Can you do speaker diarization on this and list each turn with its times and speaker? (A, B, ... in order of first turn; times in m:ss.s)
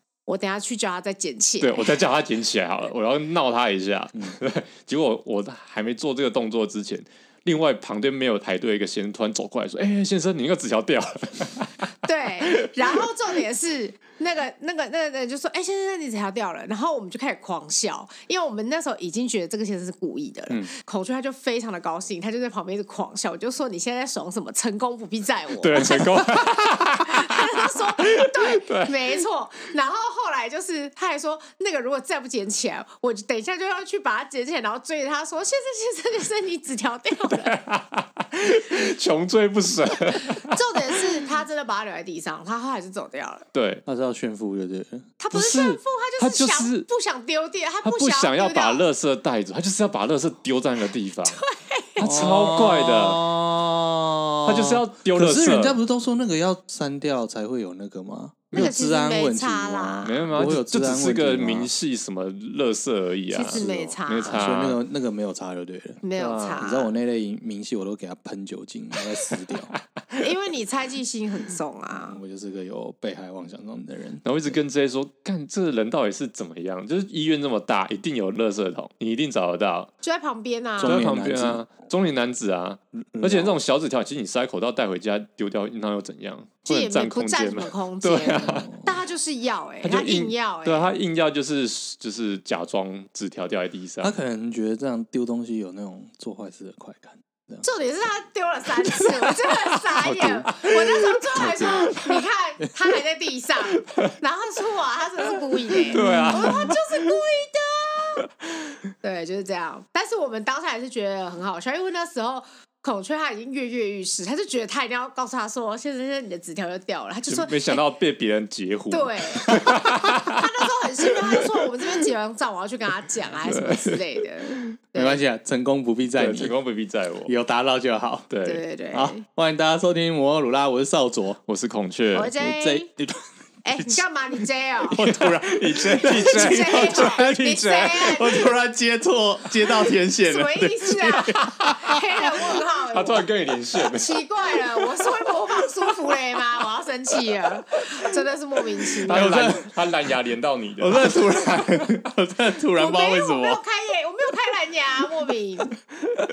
0:00.3-0:01.9 A
0:01.6-0:11.9 B
0:12.0-0:37.6 A
0:12.4-0:12.7 B
0:25.6-0:29.2 B
0:37.3-0:41.0 B
0:40.3-0:43.5 A
0:43.5-0:43.8 B
0:43.9-0:45.1 C
0:45.2-0:48.8 A
0:45.3-0:46.9 B
0:47.8-0:51.4 B
0:51.3-0:52.1 A
0:52.0-0:53.3 B
0:52.0-1:01.7 C
0:54.4-0:55.8 B
0:58.5-1:00.3 A
1:00.0-1:04.8 B
1:03.3-1:04.4 A
1:03.5-1:06.0 C
1:06.0-1:06.9 A
1:06.2-1:06.6 B
1:06.6-1:09.7 C
1:10.2-1:12.2 A
1:11.9-1:14.2 C
1:14.2-1:19.9 B
1:20.0-1:21.0 A
1:20.8-1:21.7 C
1:20.8-1:28.7 B
1:22.9-1:23.6 C
1:26.7-1:30.9 A
1:28.6-1:28.9 C
1:29.8-1:34.2 B
1:34.0-1:37.7 C
1:37.6-1:48.2 A
1:39.0-1:42.1 B
1:41.4-1:41.9 C
1:43.8-1:44.1 B
1:45.9-1:46.6 C
1:45.9-1:46.8 B
1:49.0-1:57.8 A
1:57.3-2:01.5 B
1:58.9-2:05.2 A
2:03.4-2:04.0 B
2:05.0-2:06.6 C
2:06.2-2:07.3 B
2:07.3-2:08.3 C
2:08.3-2:08.6 B
2:08.4-2:09.2 A
2:08.9-2:11.4 C
2:11.5-2:12.3 B
2:12.1-2:12.9 A
2:12.4-2:13.2 C
2:13.6-2:15.0 A
2:13.8-2:17.3 C
2:15.0-2:18.4 B
2:16.0-2:18.5 A
2:18.0-2:21.5 C
2:20.2-2:29.5 A
2:21.4-2:21.7 B
2:22.9-2:24.2 B
2:29.0-2:29.6 C
2:29.1-2:31.2 B
2:30.8-2:33.6 C
2:32.8-2:35.8 A